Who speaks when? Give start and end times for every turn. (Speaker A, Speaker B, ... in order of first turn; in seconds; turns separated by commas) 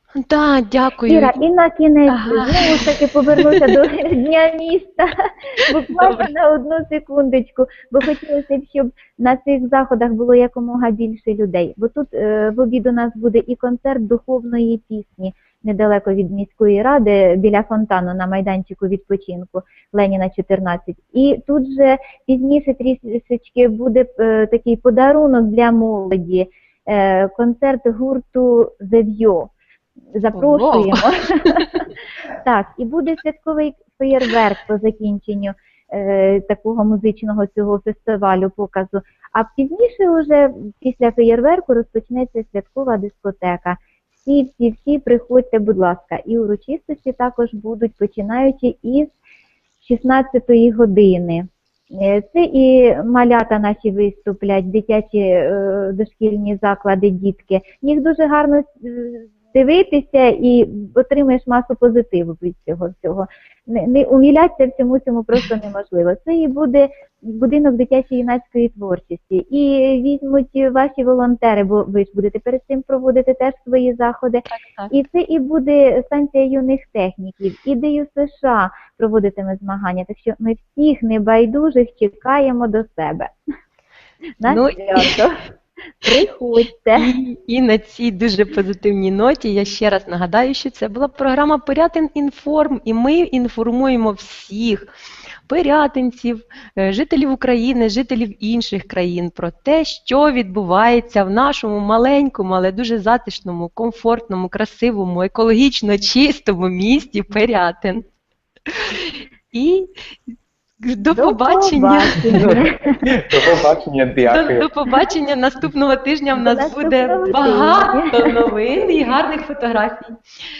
Speaker A: 0.2-1.4, Speaker B: 1.1-5.1, Speaker A: 2.1-2.9, Speaker B: 5.7-29.5, Speaker A: 6.0-6.3, Speaker B: 30.1-31.8, Speaker A: 30.3-31.8, Speaker B: 32.4-49.1, Speaker B: 49.8-83.3, Speaker A: 74.5-74.9, Speaker B: 84.4-85.3, Speaker A: 84.4-85.2, Speaker B: 86.0-87.1, Speaker A: 87.0-94.9, Speaker A: 95.5-108.0, Speaker A: 108.7-109.9, Speaker A: 110.8-112.6, Speaker B: 111.1-112.8, Speaker C: 112.3-114.7, Speaker A: 114.3-120.1, Speaker B: 116.4-118.4